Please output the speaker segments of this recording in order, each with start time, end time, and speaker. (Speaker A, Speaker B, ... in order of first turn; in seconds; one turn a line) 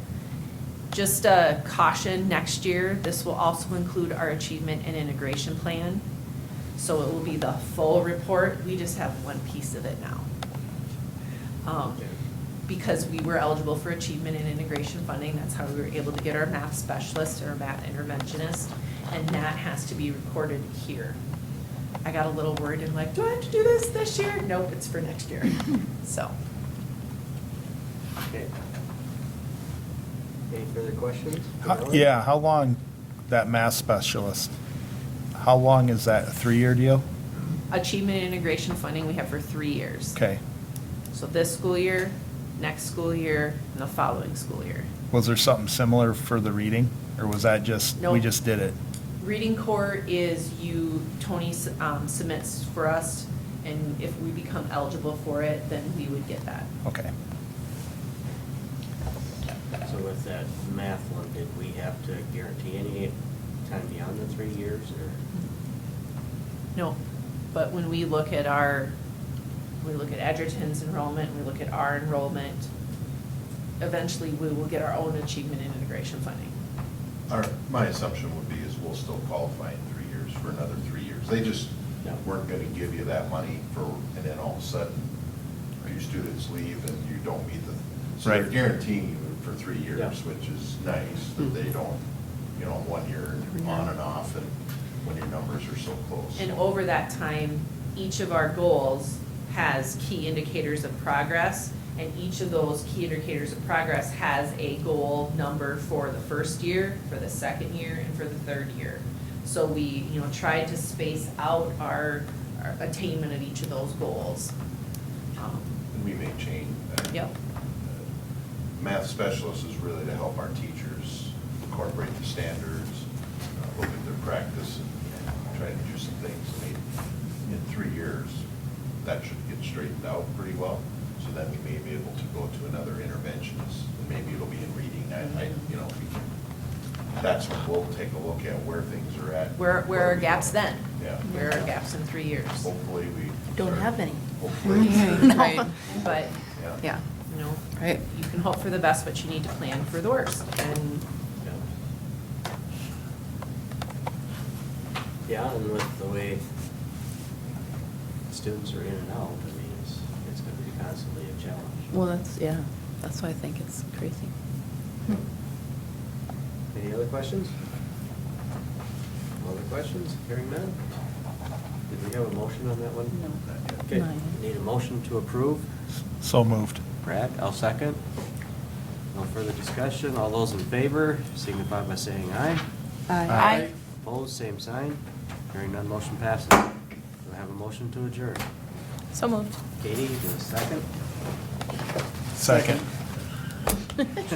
Speaker A: 0.9-6.0
Speaker A: 6.8-10.3
Speaker A: 11.6-12.0
Speaker A: 12.7-21.2
Speaker A: 22.0-26.3
Speaker B: 30.5-32.0
Speaker C: 31.6-32.8
Speaker C: 33.3-34.5
Speaker C: 35.3-37.0
Speaker A: 37.7-40.2
Speaker C: 40.1-40.4
Speaker A: 41.1-44.9
Speaker C: 45.1-48.7
Speaker A: 48.0-48.2
Speaker A: 49.2-56.7
Speaker C: 56.9-57.1
Speaker B: 59.8-65.2
Speaker A: 67.5-68.9
Speaker A: 69.8-72.7
Speaker A: 73.8-76.5
Speaker D: 77.3-85.1
Speaker D: 85.8-92.0
Speaker D: 92.5-94.5
Speaker D: 95.0-96.5
Speaker A: 96.4-114.5
Speaker D: 115.8-117.3
Speaker D: 118.8-126.8
Speaker D: 127.5-128.4
Speaker D: 129.0-136.3
Speaker D: 137.2-141.2
Speaker A: 139.6-142.7
Speaker D: 142.6-145.9
Speaker E: 143.6-144.2
Speaker E: 144.8-145.7
Speaker A: 145.0-146.3
Speaker D: 146.5-146.8
Speaker A: 147.3-151.0
Speaker B: 155.3-156.4
Speaker B: 158.3-161.9
Speaker E: 161.9-164.3
Speaker B: 166.7-167.5
Speaker B: 169.4-170.8
Speaker B: 171.9-173.2
Speaker D: 173.4-173.8
Speaker B: 173.8-175.7
Speaker E: 173.9-174.4
Speaker C: 176.2-176.8
Speaker B: 177.0-178.0
Speaker B: 179.1-182.6
Speaker E: 183.1-183.7
Speaker C: 183.2-183.6
Speaker B: 183.3-185.0
Speaker B: 185.5-186.7
Speaker B: 187.2-188.4
Speaker E: 189.1-189.5
Speaker B: 189.8-190.9
Speaker C: 192.3-192.8